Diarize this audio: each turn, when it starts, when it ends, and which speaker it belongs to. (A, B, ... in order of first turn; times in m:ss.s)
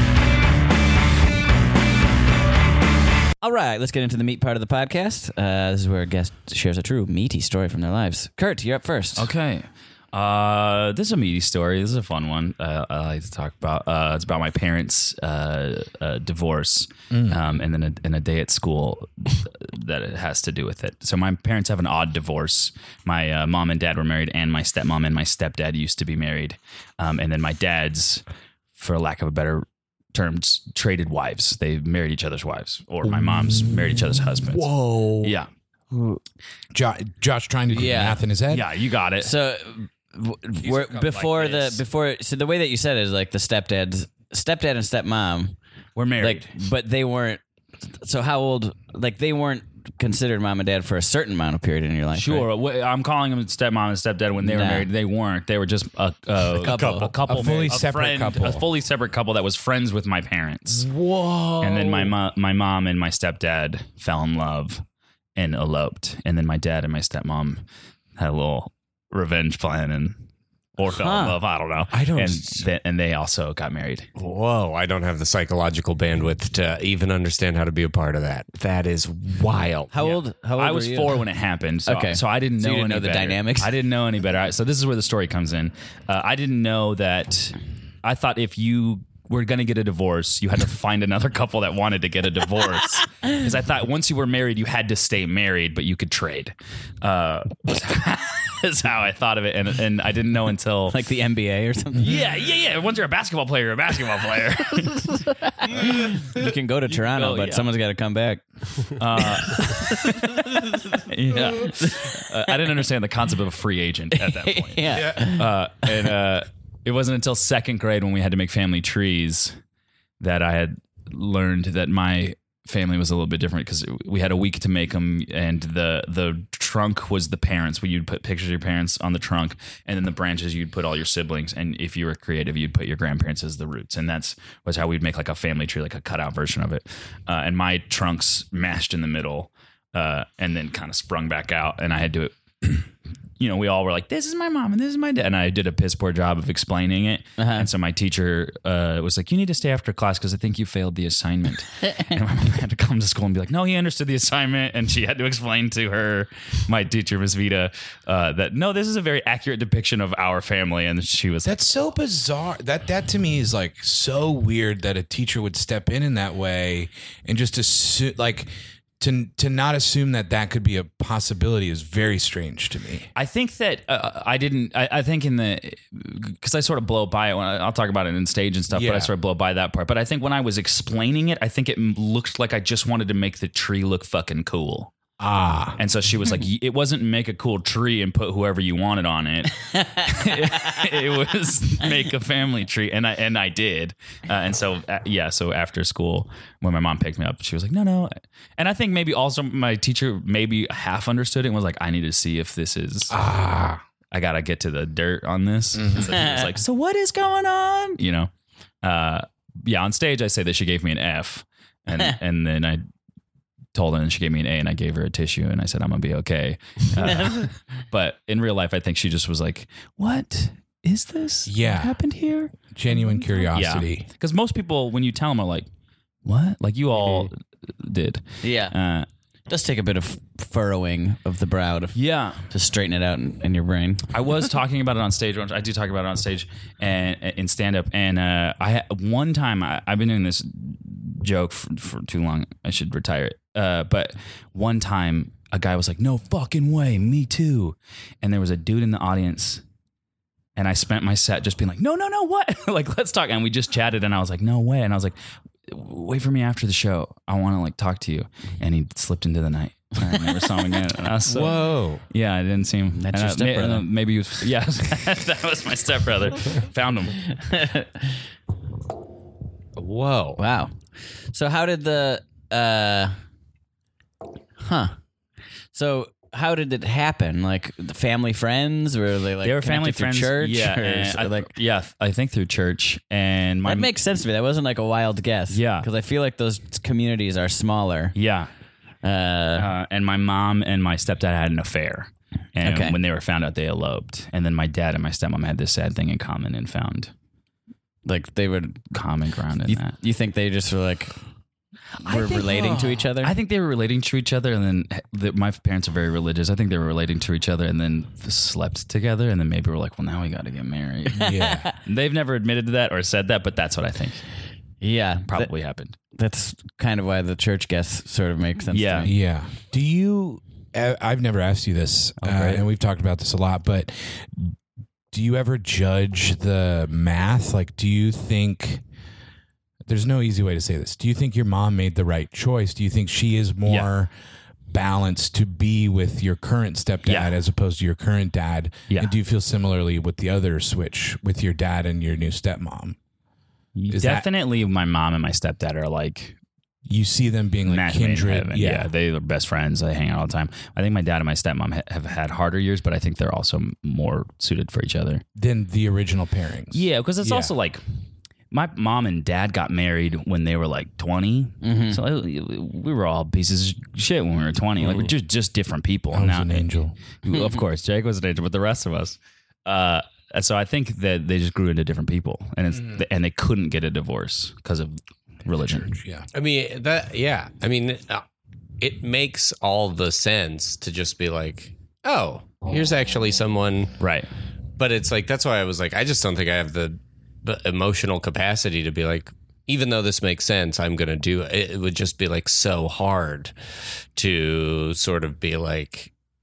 0:03.4-0:09.3 A
0:09.2-0:28.2 B
0:17.1-0:17.4 C
0:28.8-0:34.7 B
0:34.5-0:35.3 D
0:35.2-0:35.5 B
0:35.9-0:36.2 A
0:36.7-0:38.7 C
0:37.7-0:38.2 A
0:38.5-0:39.3 B
0:39.2-0:45.6 A
0:40.7-0:41.2 C
0:41.0-0:41.8 B
0:46.0-0:46.5 B
0:46.2-0:47.4 A
0:48.0-0:52.5 A
0:52.1-1:00.9 B
0:54.4-0:54.9 A
0:56.6-0:57.1 A
0:56.6-0:57.2 D
0:57.3-0:58.7 C
1:00.8-1:02.1 D
1:01.6-1:04.8 B
1:05.4-1:07.6 B
1:08.2-1:10.2 B
1:10.8-1:14.1 B
1:10.9-1:11.4 A
1:14.2-1:19.9 D
1:19.9-1:21.2 A
1:20.0-1:41.0 B
1:21.9-1:23.7 A
1:40.9-1:42.1 A
1:42.0-1:47.7 B
1:45.6-1:48.4 A
1:49.0-1:59.6 B
1:51.6-1:52.5 A
1:54.2-1:55.9 A
1:54.9-1:55.3 C
2:00.2-2:41.6 B
2:27.4-2:27.7 A
2:41.4-2:53.1 C
2:53.2-3:04.9 B
2:58.7-2:59.1 C
3:05.2-3:05.8 C
3:05.8-3:23.2 B
3:23.1-3:23.8 C
3:24.1-3:28.3 B
3:25.8-3:26.2 C
3:26.1-3:26.4 A
3:28.8-3:32.8 B
3:33.7-3:42.5 B
3:37.0-3:37.5 A
3:41.5-3:42.0 C
3:42.7-3:44.1 C
3:43.5-3:45.7 B
3:46.2-3:49.1 B
3:47.0-3:47.3 D
3:48.4-3:48.8 A
3:49.5-3:54.1 A
3:52.0-3:52.4 B
3:54.1-4:09.6 B
4:10.6-4:15.2 B
4:15.7-4:27.3 B
4:21.3-4:22.0 D
4:22.9-4:23.9 A
4:27.3-4:28.2 A
4:29.8-4:30.4 D
4:30.4-4:30.8 A
4:31.3-4:33.2 A
4:34.6-4:35.0 A
4:35.7-4:41.5 A
4:39.4-4:43.9 B
4:43.6-4:48.1 A
4:45.5-4:45.9 B
4:48.2-4:48.5 B
4:49.0-4:49.7 A
4:49.6-4:57.1 B
4:52.6-4:53.0 A
4:58.1-4:58.9 A
4:58.9-5:00.0 B
4:59.6-5:01.2 A
5:02.0-5:03.3 A
5:02.0-5:14.2 B
5:11.2-5:11.7 C
5:11.2-5:11.7 A
5:14.8-5:15.5 A
5:15.3-5:16.0 B
5:16.1-5:19.1 A
5:18.7-5:19.1 B
5:19.0-5:24.6 C
5:22.2-5:22.6 A
5:25.1-5:28.8 C
5:29.9-5:34.1 C
5:33.7-5:33.9 B
5:34.7-5:43.0 C
5:37.1-5:37.3 B
5:38.9-5:39.2 B
5:43.8-5:46.4 B
5:43.9-5:44.3 C
5:46.9-5:48.9 C
5:47.7-5:55.2 B
5:55.4-5:57.5 C
5:56.7-5:57.8 B
5:58.5-6:06.7 B
6:01.6-6:02.0 A
6:04.8-6:05.1 D
6:06.1-6:07.0 C
6:07.2-6:15.9 B
6:07.3-6:07.6 A
6:12.7-6:13.0 C
6:15.5-6:16.3 C
6:16.3-6:18.2 D
6:18.8-6:23.9 D
6:24.0-6:24.3 B
6:24.8-6:33.5 D
6:34.2-6:36.1 D